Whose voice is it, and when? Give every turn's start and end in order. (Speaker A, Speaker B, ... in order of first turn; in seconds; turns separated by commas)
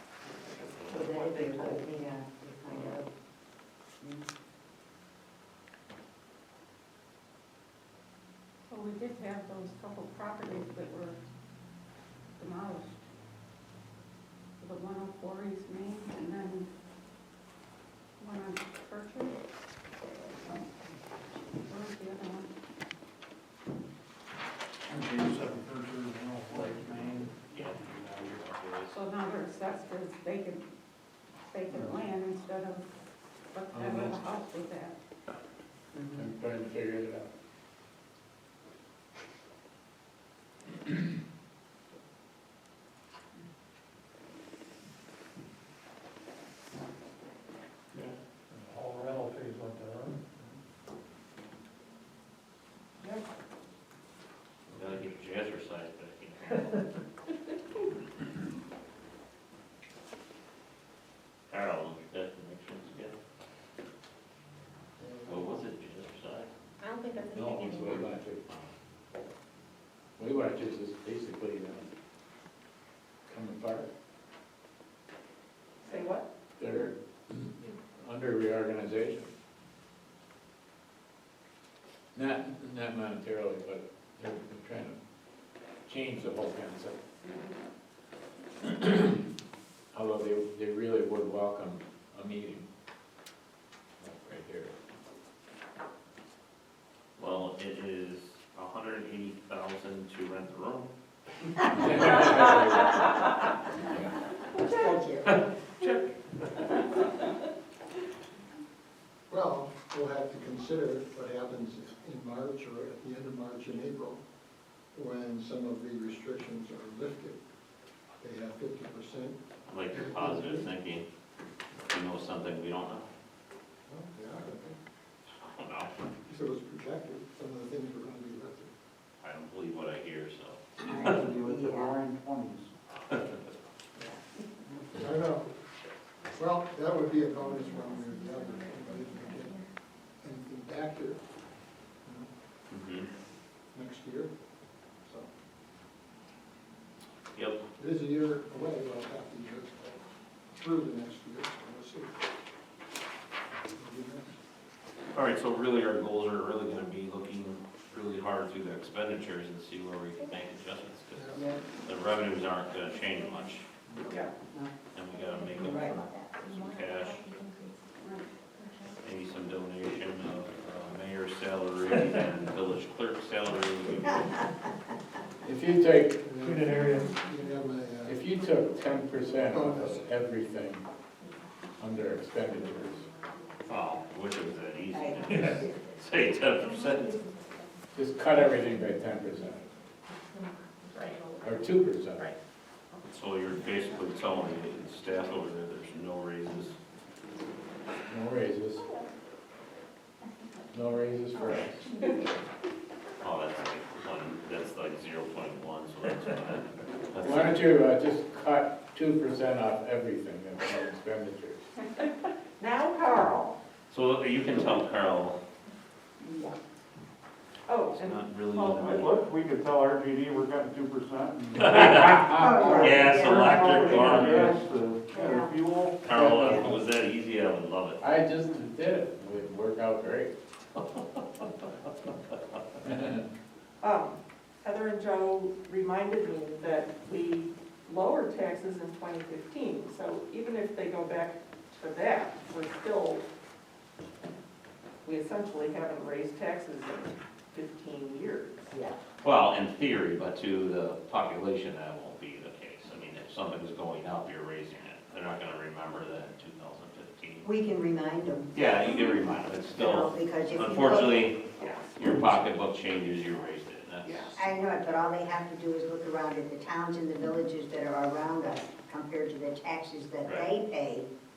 Speaker A: 0.5-1.8, Speaker B: 0.9-3.0, Speaker C: 8.7-11.2, Speaker C: 12.4-13.0, Speaker C: 14.6-16.7, Speaker C: 18.2-19.4, Speaker C: 20.3-20.7, Speaker C: 21.4-22.5, Speaker D: 24.9-28.1, Speaker E: 26.5-29.0, Speaker C: 28.9-30.6, Speaker C: 31.5-32.9, Speaker C: 33.5-35.0, Speaker F: 33.7-34.2, Speaker F: 36.1-37.3, Speaker D: 47.9-50.3, Speaker E: 54.7-56.9, Speaker E: 61.5-63.2, Speaker G: 65.0-65.6, Speaker E: 65.2-66.5, Speaker H: 66.8-68.0, Speaker F: 67.3-68.5, Speaker F: 70.2-71.9, Speaker F: 73.3-73.9, Speaker A: 75.8-76.2, Speaker F: 76.6-79.3, Speaker F: 82.1-85.0, Speaker F: 85.8-87.0, Speaker F: 88.6-89.2, Speaker F: 89.9-92.7, Speaker F: 94.0-94.7, Speaker E: 97.2-100.9, Speaker F: 101.7-103.1, Speaker B: 104.5-105.4, Speaker G: 109.3-114.2, Speaker G: 114.9-117.4, Speaker G: 118.2-119.4, Speaker E: 119.7-121.0, Speaker G: 119.9-120.7, Speaker E: 121.9-123.1, Speaker G: 123.9-124.8, Speaker E: 125.2-125.9, Speaker G: 126.3-128.7, Speaker E: 129.2-131.1, Speaker B: 130.8-131.9, Speaker D: 130.8-132.7, Speaker E: 133.1-133.4, Speaker G: 134.9-135.5, Speaker G: 136.3-139.6, Speaker H: 137.3-139.7, Speaker G: 140.2-141.2, Speaker G: 142.0-142.3, Speaker E: 142.7-143.1, Speaker G: 143.7-144.3, Speaker G: 145.0-145.3, Speaker E: 147.3-147.6, Speaker G: 147.8-152.1, Speaker G: 153.7-154.3, Speaker E: 155.1-163.7, Speaker G: 161.1-161.5, Speaker H: 162.8-163.5, Speaker G: 163.9-164.2, Speaker E: 164.9-167.3, Speaker H: 165.1-168.9, Speaker B: 165.6-166.0, Speaker C: 168.0-168.2, Speaker E: 169.0-174.5, Speaker F: 175.4-176.3, Speaker G: 176.2-178.2, Speaker D: 176.4-177.1, Speaker H: 176.7-177.6, Speaker F: 178.0-180.8, Speaker G: 179.5-180.1, Speaker F: 181.8-183.0, Speaker H: 182.5-187.8, Speaker E: 183.6-187.2, Speaker B: 184.9-185.7, Speaker F: 187.9-189.7, Speaker H: 190.1-191.7, Speaker F: 191.4-192.3, Speaker E: 193.0-196.8, Speaker H: 193.7-194.6, Speaker F: 198.1-198.8, Speaker H: 198.8-199.1, Speaker F: 200.7-201.9, Speaker E: 203.2-207.7, Speaker F: 207.2-211.6, Speaker A: 212.6-213.5, Speaker E: 213.9-215.4, Speaker A: 217.7-218.8, Speaker E: 217.9-219.2, Speaker D: 218.7-226.7, Speaker F: 221.6-223.1, Speaker E: 221.6-224.6, Speaker B: 222.4-224.4, Speaker B: 225.1-225.5, Speaker E: 226.0-228.0, Speaker F: 226.1-226.7, Speaker F: 228.0-230.3, Speaker E: 230.8-231.4, Speaker F: 232.8-233.2, Speaker A: 234.7-237.5, Speaker A: 238.1-243.2, Speaker A: 245.1-248.6, Speaker B: 248.7-248.9, Speaker E: 249.2-257.5, Speaker B: 257.4-261.3, Speaker E: 258.5-264.5, Speaker A: 261.6-261.9, Speaker B: 264.3-271.1, Speaker E: 270.2-270.5